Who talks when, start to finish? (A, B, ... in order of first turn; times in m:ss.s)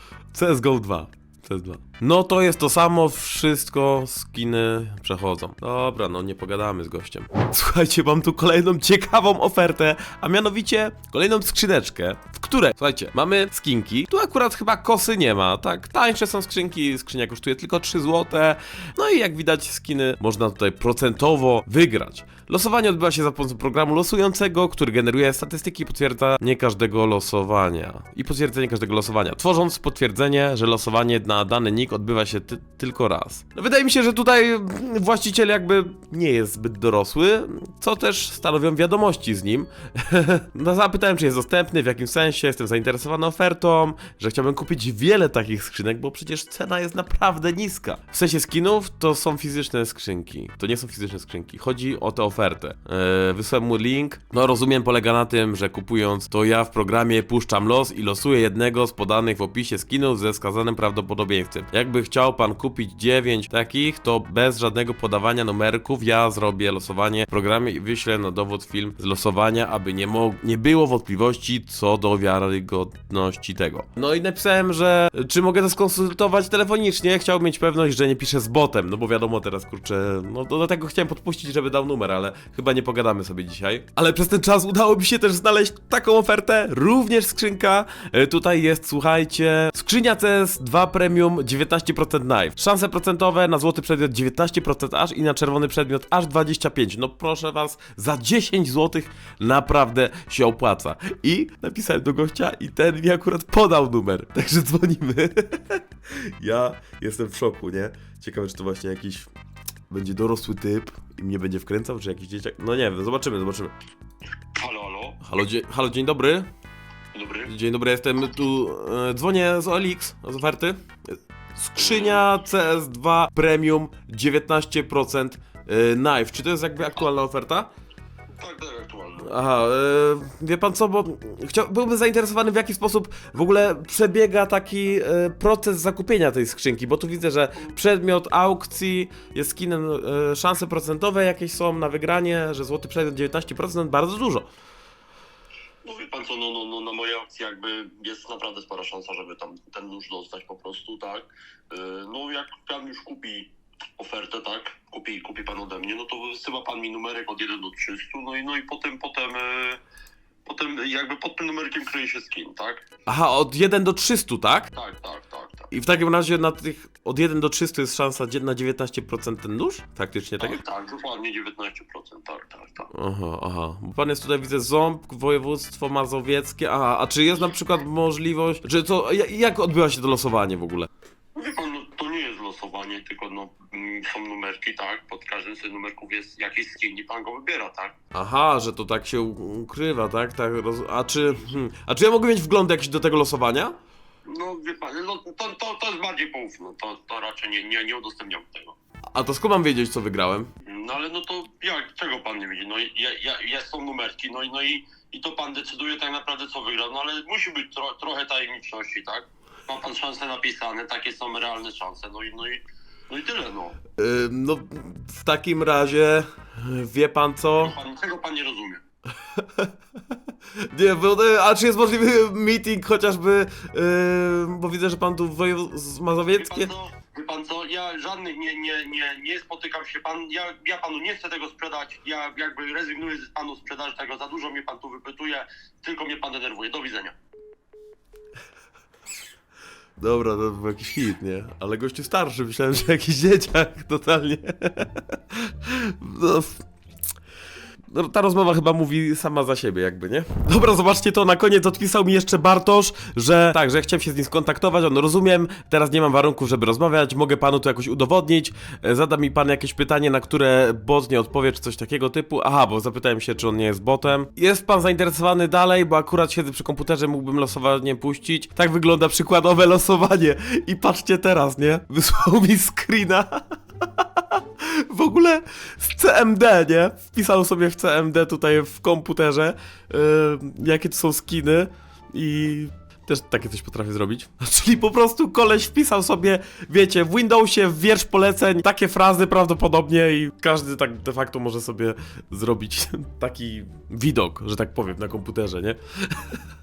0:00.3-1:49.3 A
1:49.9-1:53.7 A
1:54.6-1:55.2 B
1:55.2-1:56.5 A
1:57.1-1:57.5 B
1:57.5-2:07.7 A
2:01.8-2:02.3 B
2:08.4-2:09.3 B
2:09.2-2:24.5 A
2:25.8-2:39.8 B
2:40.5-2:42.9 B
2:43.1-2:44.7 A
2:44.7-2:45.7 B
2:45.7-2:50.6 A
2:50.4-2:52.9 B
2:52.9-3:00.9 A
3:01.4-3:07.9 B
3:08.1-3:13.8 A
3:14.3-3:18.8 B
3:19.1-3:20.5 A
3:20.6-3:33.8 B
3:34.0-3:37.8 A
3:37.6-3:38.8 B
3:39.2-3:39.7 A
3:40.6-3:46.7 A
3:46.3-3:57.2 B
4:00.0-4:06.7 A
4:07.9-4:56.4 A